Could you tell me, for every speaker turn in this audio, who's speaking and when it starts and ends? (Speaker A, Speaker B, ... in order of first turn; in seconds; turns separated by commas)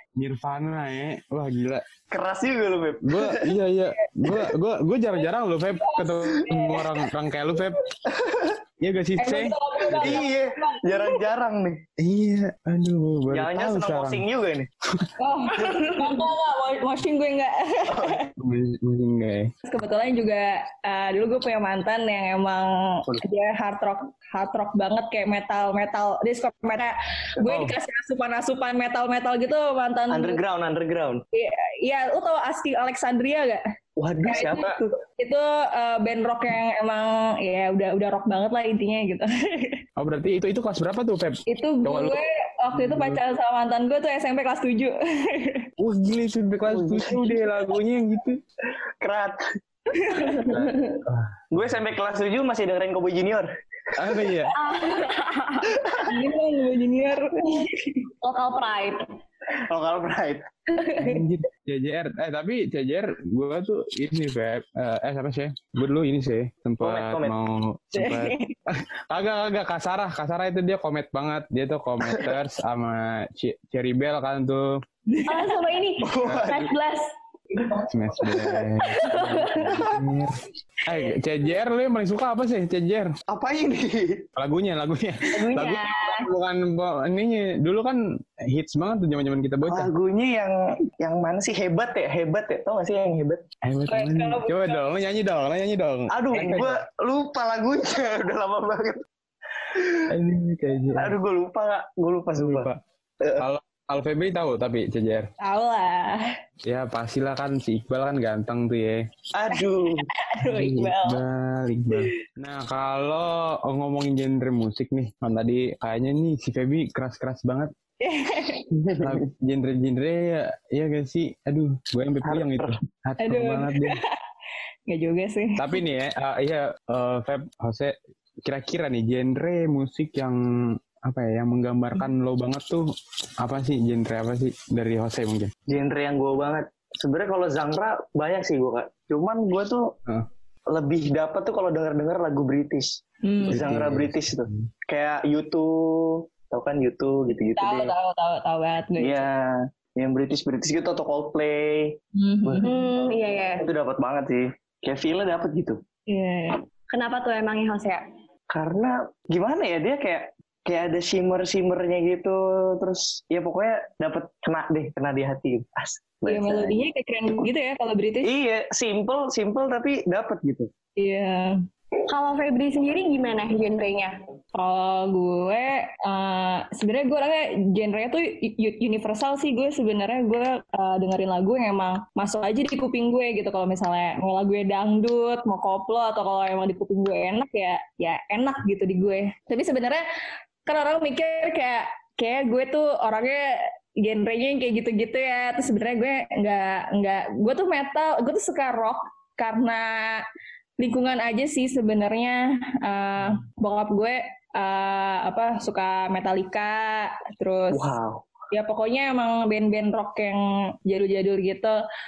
Speaker A: 0.2-1.8, Speaker B: 2.1-3.5, Speaker A: 3.0-7.8, Speaker C: 5.8-6.8, Speaker B: 8.1-8.6, Speaker A: 8.8-10.2, Speaker C: 9.2-11.2, Speaker B: 9.9-11.8, Speaker A: 12.0-14.2, Speaker B: 13.3-14.7, Speaker C: 15.2-18.3, Speaker B: 17.9-18.2, Speaker A: 18.4-19.5, Speaker C: 19.6-30.4, Speaker A: 27.4-27.7, Speaker B: 30.1-31.2, Speaker C: 31.3-33.6, Speaker B: 34.0-35.0, Speaker C: 34.2-39.8, Speaker A: 40.0-42.2, Speaker C: 41.5-45.7, Speaker A: 42.8-43.2, Speaker A: 45.8-48.4, Speaker B: 46.7-47.4, Speaker B: 49.0-49.4, Speaker C: 50.0-50.5, Speaker A: 50.4-51.3, Speaker B: 51.5-53.5, Speaker A: 54.0-54.5, Speaker D: 54.5-56.0, Speaker C: 56.1-58.0, Speaker D: 58.2-59.0, Speaker B: 59.7-60.5, Speaker A: 61.0-74.8, Speaker B: 66.8-67.3, Speaker C: 68.0-68.5, Speaker C: 75.1-75.5, Speaker D: 75.3-77.0, Speaker B: 76.0-76.7, Speaker A: 76.2-76.6, Speaker A: 77.9-83.2, Speaker B: 78.3-78.7, Speaker D: 79.1-79.7, Speaker B: 83.3-84.3, Speaker A: 84.4-89.9, Speaker D: 85.3-86.3, Speaker B: 89.7-93.4, Speaker A: 93.6-96.8, Speaker C: 93.9-94.8, Speaker B: 96.1-99.0, Speaker B: 99.7-100.0, Speaker A: 100.1-101.2, Speaker B: 101.0-102.7, Speaker A: 102.4-102.8, Speaker A: 103.4-105.3, Speaker C: 105.4-106.2, Speaker A: 106.7-109.0, Speaker B: 109.3-110.1, Speaker C: 109.5-111.2, Speaker A: 110.4-117.7, Speaker C: 118.0-118.7, Speaker B: 118.8-119.2, Speaker A: 119.0-124.0, Speaker B: 122.2-122.7, Speaker C: 123.2-124.1, Speaker C: 124.9-125.6, Speaker A: 125.6-132.9, Speaker A: 133.4-135.5, Speaker B: 135.7-139.9, Speaker B: 140.7-147.9, Speaker C: 143.2-143.6, Speaker A: 143.5-144.7, Speaker C: 147.6-149.3, Speaker B: 149.0-152.8, Speaker C: 152.2-152.7, Speaker D: 152.6-153.7, Speaker B: 153.7-155.8, Speaker C: 156.1-156.6, Speaker D: 156.9-158.1, Speaker B: 158.5-166.8, Speaker C: 166.3-168.3, Speaker B: 168.2-170.7, Speaker C: 171.0-171.6, Speaker D: 172.1-174.2, Speaker C: 174.6-190.0, Speaker C: 190.7-200.2, Speaker C: 200.8-207.9, Speaker B: 207.7-208.3, Speaker C: 208.5-211.8